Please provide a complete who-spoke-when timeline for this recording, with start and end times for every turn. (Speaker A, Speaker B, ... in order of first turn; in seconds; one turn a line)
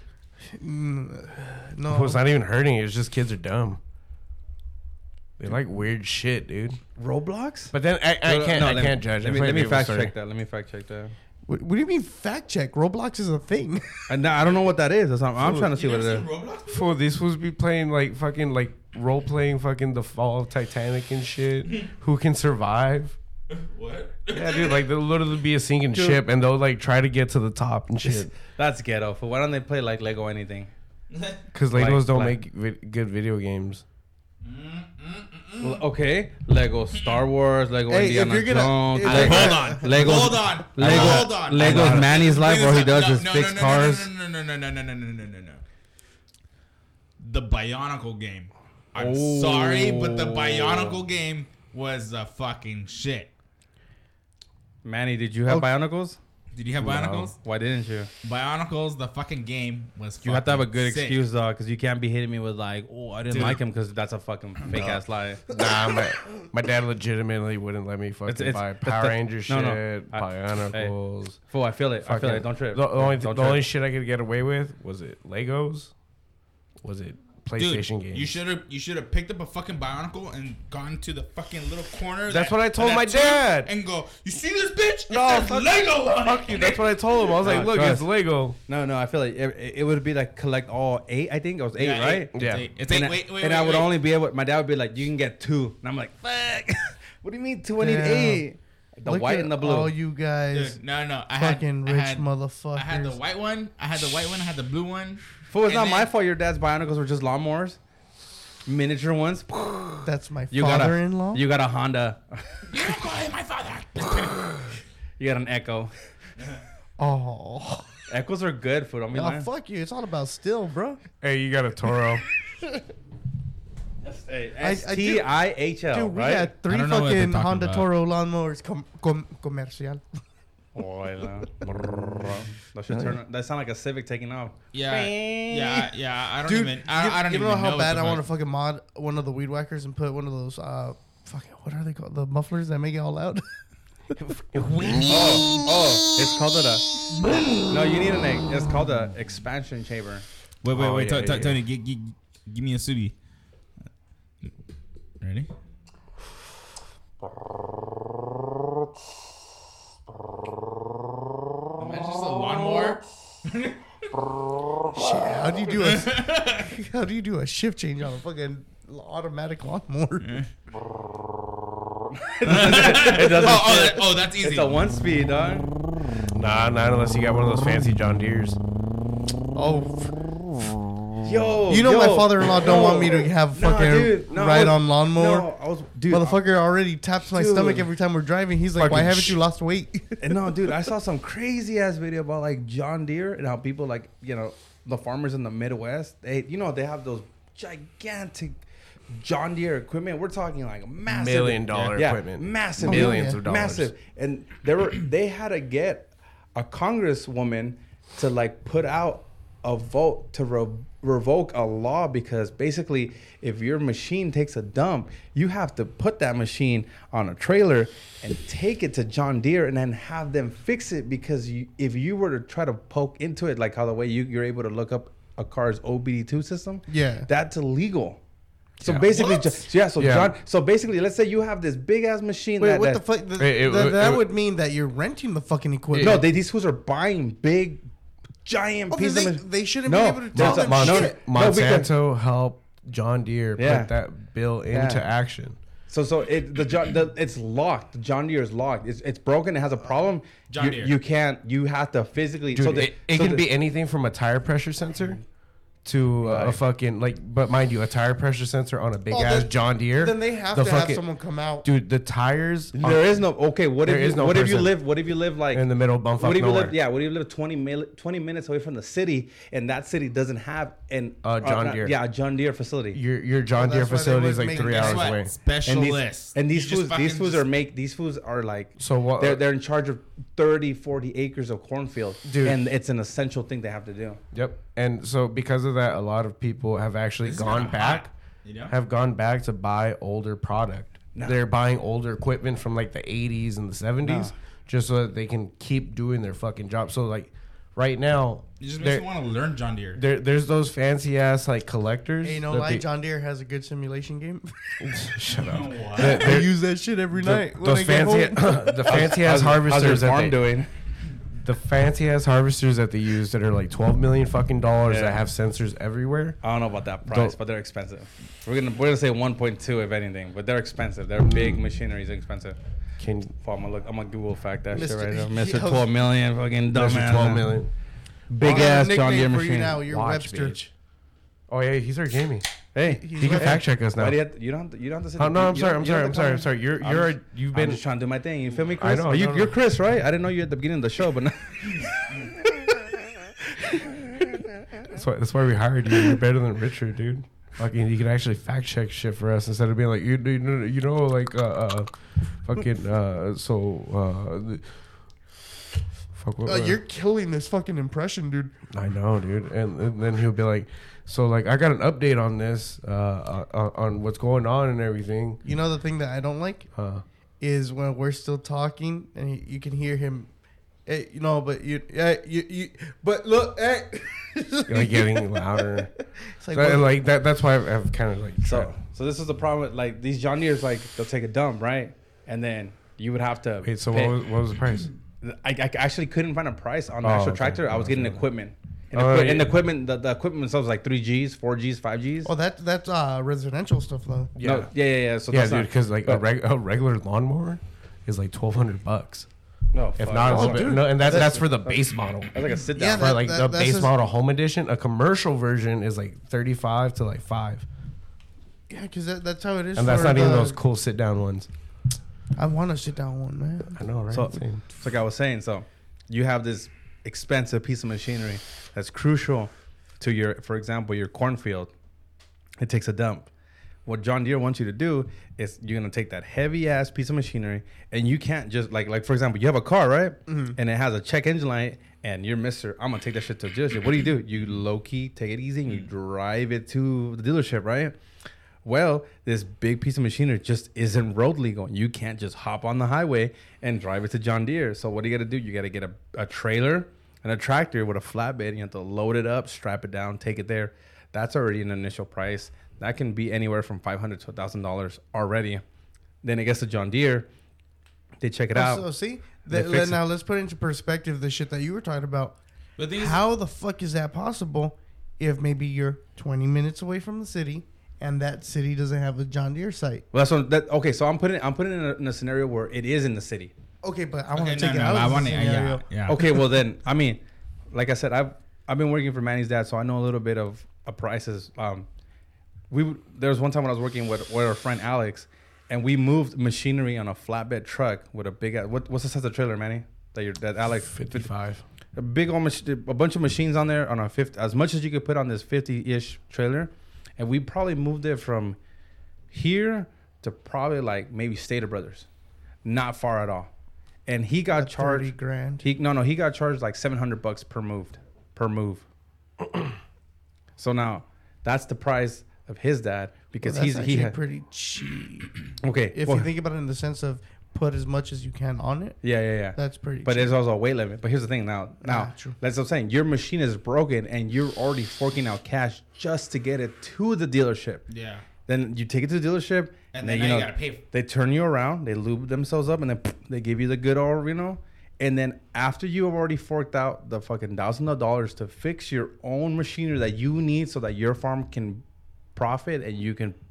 Speaker A: 0.5-2.2
Speaker B: 1.9-3.8
Speaker B: 5.4-6.8
Speaker C: 7.0-7.7
Speaker B: 7.7-10.1
Speaker C: 8.2-11.1
Speaker A: 11.5-14.0
Speaker C: 14.1-16.3
Speaker B: 15.4-15.7
Speaker D: 15.5-16.9
Speaker B: 16.7-23.2
Speaker D: 23.5-24.8
Speaker B: 24.3-28.3
Speaker C: 25.9-26.2
Speaker C: 28.0-30.7
Speaker D: 31.1-31.4
Speaker B: 31.5-33.8
Speaker C: 31.7-32.4
Speaker D: 34.4-35.8
Speaker C: 35.6-44.1
Speaker D: 37.0-37.2
Speaker A: 37.9-40.4
Speaker D: 39.1-45.6
Speaker B: 40.8-42.1
Speaker D: 47.2-53.3
Speaker C: 49.0-51.0
Speaker C: 54.8-56.2
Speaker D: 56.5-57.4
Speaker B: 56.8-57.3
Speaker C: 57.4-58.1
Speaker D: 58.2-61.2
Speaker C: 60.2-65.5
Speaker D: 63.3-63.6
Speaker B: 64.8-71.4
Speaker C: 68.3-70.9
Speaker C: 71.5-73.6
Speaker B: 72.0-75.9
Speaker B: 76.8-78.3
Speaker D: 77.6-86.8
Speaker B: 82.3-83.7
Speaker B: 85.1-88.6
Speaker C: 87.4-88.1
Speaker C: 88.7-92.3
Speaker D: 91.8-94.0
Speaker B: 92.3-92.7
Speaker C: 92.9-100.0
Speaker A: 97.8-98.5
Speaker A: 99.1-100.8
Speaker D: 100.5-106.1
Speaker A: 101.3-103.2
Speaker C: 105.5-107.8
Speaker C: 108.7-112.8
Speaker A: 110.0-111.4
Speaker D: 112.7-114.7
Speaker C: 115.2-115.9
Speaker A: 117.0-117.9
Speaker C: 118.1-119.5
Speaker A: 119.1-121.0
Speaker B: 121.2-122.2
Speaker C: 124.0-126.5
Speaker A: 124.6-125.3
Speaker A: 125.9-130.0
Speaker D: 126.7-127.9
Speaker C: 130.8-135.9
Speaker D: 134.7-138.2
Speaker A: 136.4-143.4
Speaker B: 144.2-145.7
Speaker C: 145.1-146.9
Speaker C: 147.7-150.2
Speaker D: 150.6-153.2
Speaker B: 150.7-151.6
Speaker D: 155.2-155.5
Speaker D: 161.8-163.8
Speaker A: 164.9-170.4
Speaker D: 165.8-166.7
Speaker C: 172.2-175.7
Speaker D: 172.4-174.8
Speaker B: 176.3-178.6
Speaker A: 179.6-180.2
Speaker C: 181.2-186.4
Speaker A: 181.7-185.5
Speaker A: 186.1-190.3
Speaker C: 187.3-187.9
Speaker B: 188.8-189.2
Speaker C: 188.9-189.3
Speaker C: 190.2-198.6
Speaker C: 199.1-228.2
Speaker B: 201.1-203.9
Speaker A: 202.8-203.4
Speaker A: 226.9-227.3
Speaker C: 228.8-233.0
Speaker B: 228.8-229.3
Speaker B: 230.0-230.4
Speaker A: 232.6-236.3
Speaker B: 233.4-234.3
Speaker B: 235.9-236.3
Speaker C: 236.0-237.8
Speaker C: 238.4-241.9
Speaker A: 238.9-241.2
Speaker B: 240.3-245.6
Speaker C: 243.6-243.9
Speaker C: 244.7-245.1
Speaker C: 245.9-253.4
Speaker D: 250.5-250.9
Speaker B: 252.5-255.2
Speaker B: 255.8-261.1
Speaker C: 256.2-256.6
Speaker A: 259.1-261.7
Speaker B: 261.6-263.2
Speaker C: 262.8-265.7
Speaker B: 263.8-264.8
Speaker B: 265.5-266.8
Speaker C: 266.2-273.0
Speaker B: 271.2-271.9
Speaker B: 272.9-275.3
Speaker A: 273.6-275.1
Speaker D: 274.7-277.5
Speaker C: 275.6-284.2
Speaker B: 278.8-279.4
Speaker B: 282.2-282.6
Speaker B: 284.3-288.1
Speaker D: 287.2-288.7
Speaker B: 288.7-299.1
Speaker A: 294.1-294.3
Speaker D: 298.6-300.0
Speaker B: 299.9-302.9
Speaker A: 302.2-304.6
Speaker B: 304.8-306.6
Speaker D: 305.3-306.4
Speaker A: 306.0-308.8
Speaker B: 307.1-310.4
Speaker C: 308.9-310.7
Speaker B: 311.3-316.4
Speaker C: 314.9-315.2
Speaker C: 316.4-322.6
Speaker B: 317.1-317.4
Speaker B: 321.2-321.6
Speaker B: 323.0-323.3
Speaker C: 323.4-327.6
Speaker A: 324.7-325.9
Speaker B: 326.7-327.7
Speaker C: 328.3-329.9
Speaker A: 328.4-330.6
Speaker B: 329.9-330.7
Speaker B: 331.5-332.5
Speaker C: 332.7-342.4
Speaker A: 332.9-333.6
Speaker B: 333.2-334.2
Speaker B: 335.2-337.8
Speaker B: 338.8-339.6
Speaker C: 343.6-344.4
Speaker B: 344.8-351.9
Speaker B: 352.4-354.7
Speaker B: 356.2-356.8
Speaker A: 356.4-358.6
Speaker B: 358.7-365.4
Speaker A: 365.4-366.7
Speaker B: 366.8-367.0
Speaker A: 367.4-370.3
Speaker A: 370.9-376.9
Speaker B: 374.7-375.9
Speaker B: 376.5-378.7
Speaker C: 378.4-384.2
Speaker B: 383.6-384.9
Speaker C: 385.2-392.3
Speaker B: 387.0-388.2
Speaker B: 388.9-389.6
Speaker A: 392.2-394.3
Speaker B: 394.4-394.7
Speaker C: 394.4-396.2
Speaker B: 395.3-399.3
Speaker C: 399.7-401.8
Speaker B: 400.0-402.3
Speaker A: 400.3-401.4
Speaker C: 402.3-403.1
Speaker A: 402.8-403.9
Speaker B: 402.9-407.7
Speaker A: 408.7-410.6
Speaker B: 409.8-411.5
Speaker A: 412.4-413.8
Speaker B: 413.8-414.6
Speaker C: 414.1-421.7
Speaker C: 422.6-423.3
Speaker C: 423.9-437.9
Speaker A: 430.3-430.6
Speaker C: 438.6-455.6
Speaker C: 456.2-457.3
Speaker C: 458.2-458.9
Speaker A: 458.5-462.4
Speaker C: 459.5-460.0
Speaker D: 462.8-463.2
Speaker A: 462.9-470.1
Speaker C: 470.1-473.5
Speaker A: 473.8-476.4
Speaker D: 474.4-476.2
Speaker C: 476.1-481.9
Speaker C: 482.7-491.3
Speaker B: 490.9-491.6
Speaker C: 492.0-498.6
Speaker C: 499.3-502.1
Speaker C: 502.6-503.5
Speaker C: 504.1-508.9
Speaker A: 504.6-505.7
Speaker C: 510.6-514.2
Speaker A: 513.4-515.3
Speaker C: 515.6-516.3
Speaker A: 515.9-519.0
Speaker C: 519.0-527.9
Speaker A: 519.5-520.4
Speaker A: 521.8-522.4
Speaker D: 527.9-528.3
Speaker C: 528.5-541.8
Speaker D: 529.9-530.8
Speaker C: 542.4-543.4